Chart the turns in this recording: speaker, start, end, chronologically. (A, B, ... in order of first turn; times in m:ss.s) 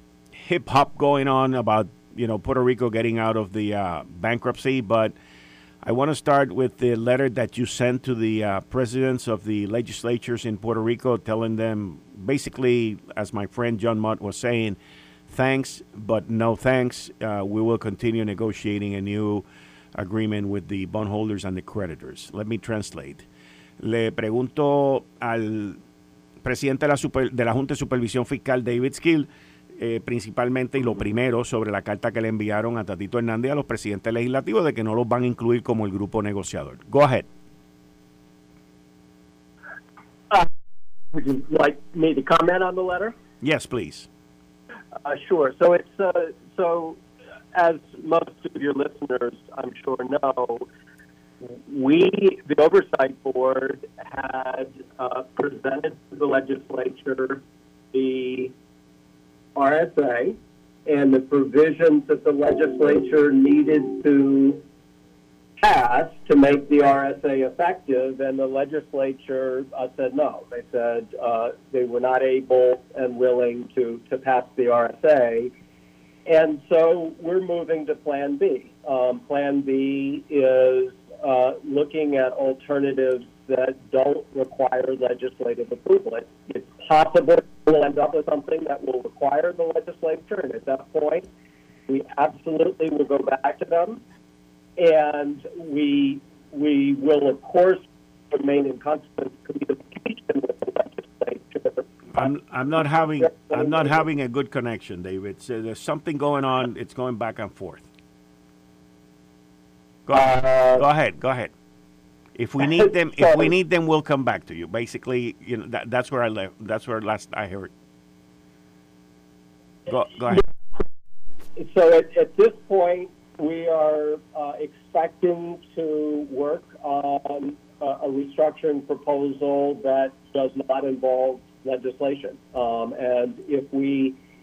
0:00.4-0:05.1 A
0:05.8-0:14.8 A
0:15.3-0:23.2 A
0:23.8-0:25.8 A
0:26.4-0:37.3 A
0:41.1-0:43.1 B
0:43.4-0:44.1 A
0:45.0-0:47.0 B
0:47.5-0:50.6 B
0:51.4-0:58.5 B
0:59.5-1:04.6 B
1:05.6-1:15.5 B
1:16.2-1:31.3 B
1:31.9-1:34.0 B
1:34.8-1:42.3 B
1:42.1-1:47.8 A
1:43.2-1:44.0 B
1:50.1-1:51.5 A
1:50.1-1:50.8 B
1:52.4-1:57.7 A
1:52.7-1:53.5 B
1:59.9-2:00.4 A
2:01.6-2:14.2 B